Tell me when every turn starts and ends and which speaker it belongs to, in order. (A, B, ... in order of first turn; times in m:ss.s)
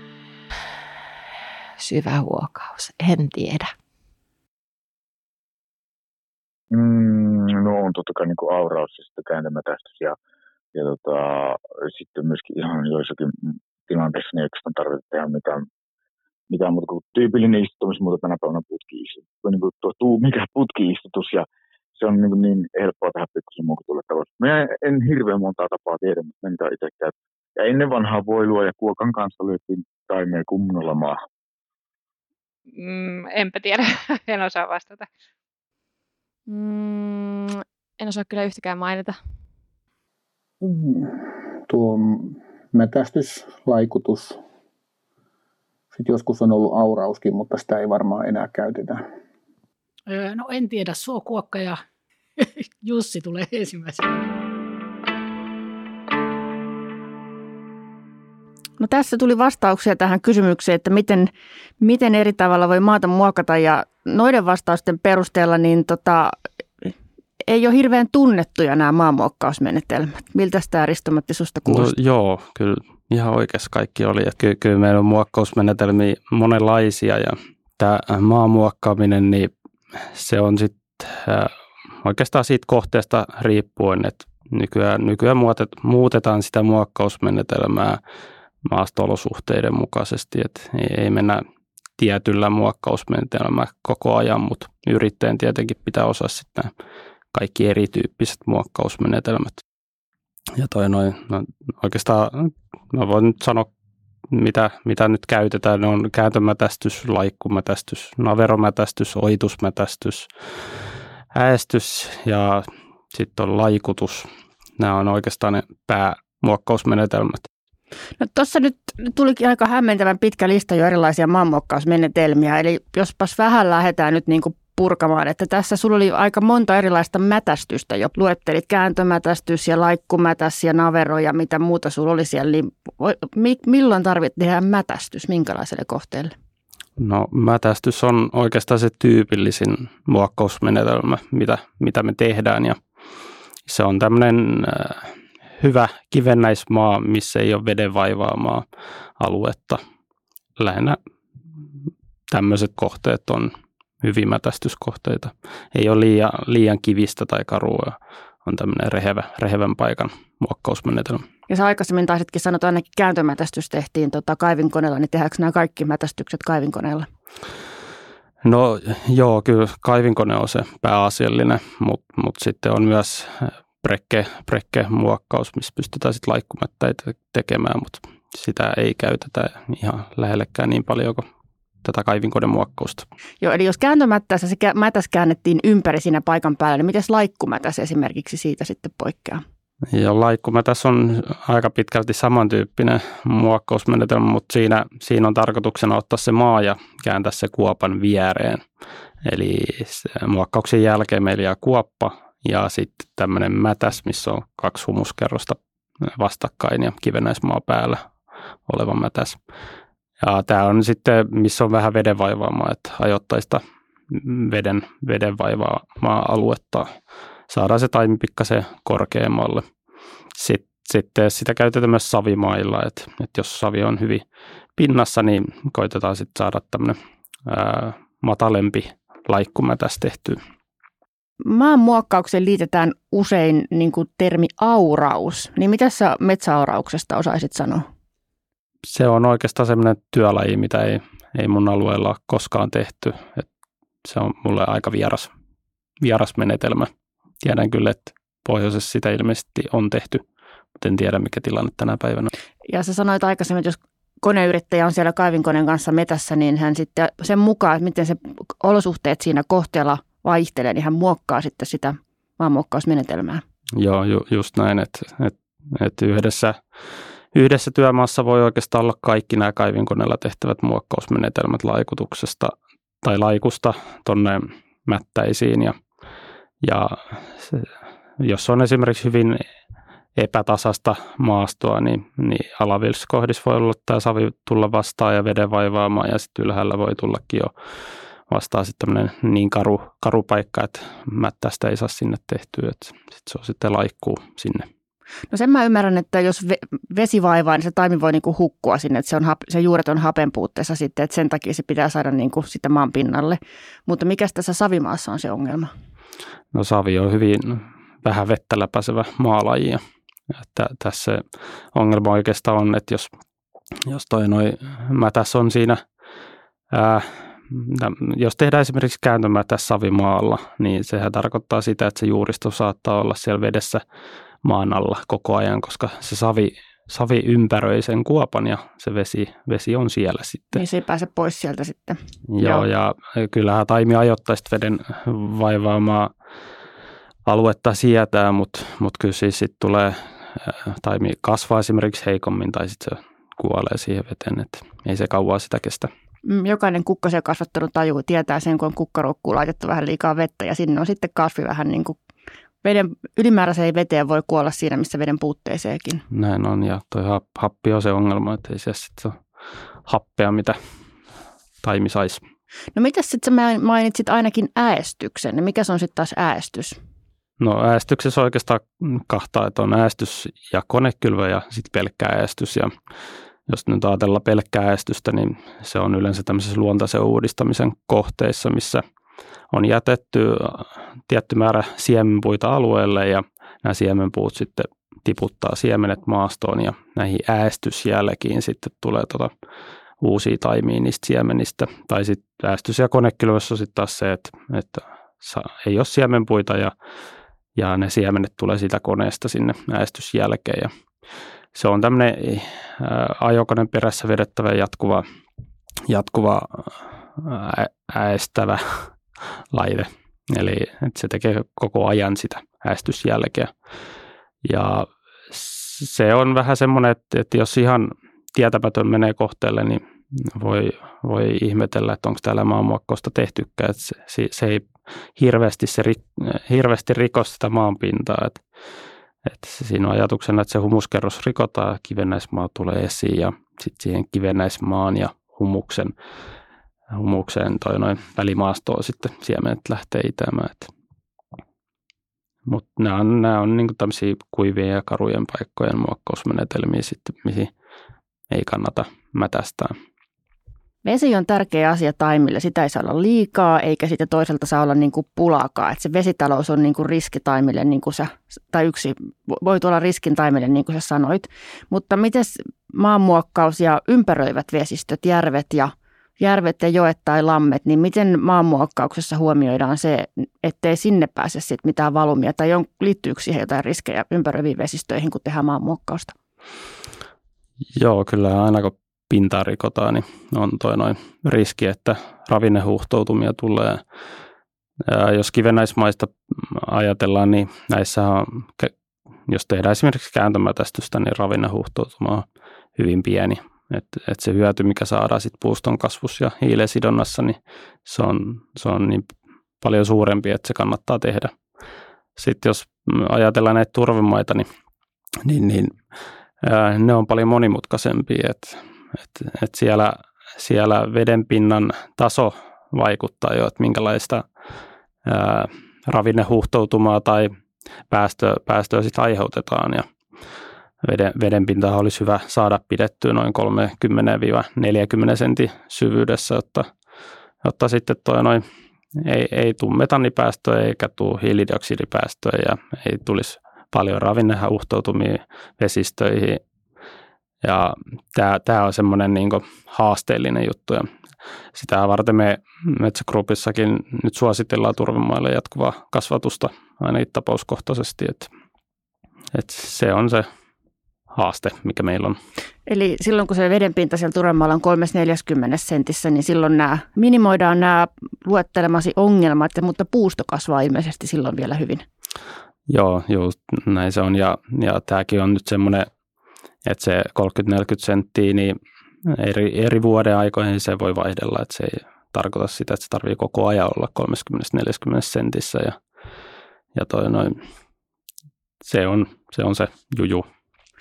0:01.8-0:03.7 A
0:06.7-0:10.2 B
0:10.7-0:15.6 B
0:16.5-0:31.2 B
0:32.7-0:35.1 C
0:36.5-0:39.2 D
0:40.6-0:44.4 E
0:45.9-0:49.0 E
0:50.1-0:51.8 F
0:52.4-0:54.2 F
0:58.8-1:06.9 G
1:07.5-1:11.9 G
1:11.7-1:28.0 H
1:28.6-1:31.4 H
1:32.0-1:36.7 H
1:37.3-1:39.6 H
1:40.6-1:43.7 H
1:44.3-1:57.5 H
1:58.2-2:16.3 G
2:17.0-2:22.8 H
2:23.7-2:28.6 H
2:29.2-2:29.8 H
2:30.6-2:31.0 H
2:32.3-2:33.5 H
2:34.0-2:41.2 H
2:41.5-2:47.1 G
2:48.4-3:01.2 H
3:01.8-3:03.1 H
3:03.4-3:09.4 G
3:09.9-3:18.6 H
3:19.2-3:28.0 H
3:28.7-3:29.4 H
3:30.2-3:36.9 H
3:37.5-3:39.6 H
3:40.4-3:44.2 H
3:44.8-3:50.4 H
3:51.4-3:57.8 G
3:58.9-4:03.5 H
4:04.0-4:05.3 H
4:06.0-4:06.9 H
4:07.4-4:10.2 H
4:10.8-4:12.3 H
4:12.7-4:23.4 G
4:23.8-4:26.6 H
4:27.3-4:35.8 H
4:36.6-4:39.4 H
4:40.2-4:47.5 H
4:48.3-4:54.7 H
4:55.3-5:05.7 G
5:06.5-5:09.8 H
5:10.4-5:13.1 H
5:13.8-5:15.8 H
5:16.7-5:23.8 H
5:24.4-5:30.6 H
5:30.5-5:32.6 G
5:32.3-5:36.1 H
5:37.2-5:45.9 H
5:46.2-5:52.0 G
5:52.6-5:56.0 G
5:56.1-5:59.2 H
5:59.8-6:00.6 H
6:01.6-6:02.2 H
6:02.7-6:06.8 G
6:07.4-6:12.7 H
6:13.5-6:18.8 H
6:19.5-6:29.3 H
6:30.0-6:36.7 H
6:37.6-6:40.7 H
6:41.5-6:45.0 H
6:45.9-6:53.5 H
6:54.4-7:08.4 H
7:09.2-7:15.9 H
7:16.9-7:20.7 H
7:22.4-7:27.5 H
7:28.3-7:29.7 H
7:30.8-7:56.1 G
7:57.7-8:03.8 H
8:04.8-8:08.7 H
8:09.3-8:12.2 H
8:12.8-8:21.3 H
8:22.2-8:24.5 H
8:25.2-8:25.8 H
8:26.4-8:34.2 H
8:35.0-8:37.3 H
8:37.9-8:39.8 H
8:40.8-8:46.7 H
8:47.4-8:48.4 H
8:49.0-8:56.4 H
8:57.4-9:00.9 H
9:01.5-9:08.3 H
9:09.3-9:10.3 H
9:11.1-9:12.2 H
9:12.7-9:21.8 G
9:22.7-9:25.9 H
9:26.6-9:35.8 H
9:36.7-9:37.4 H
9:38.6-9:40.2 H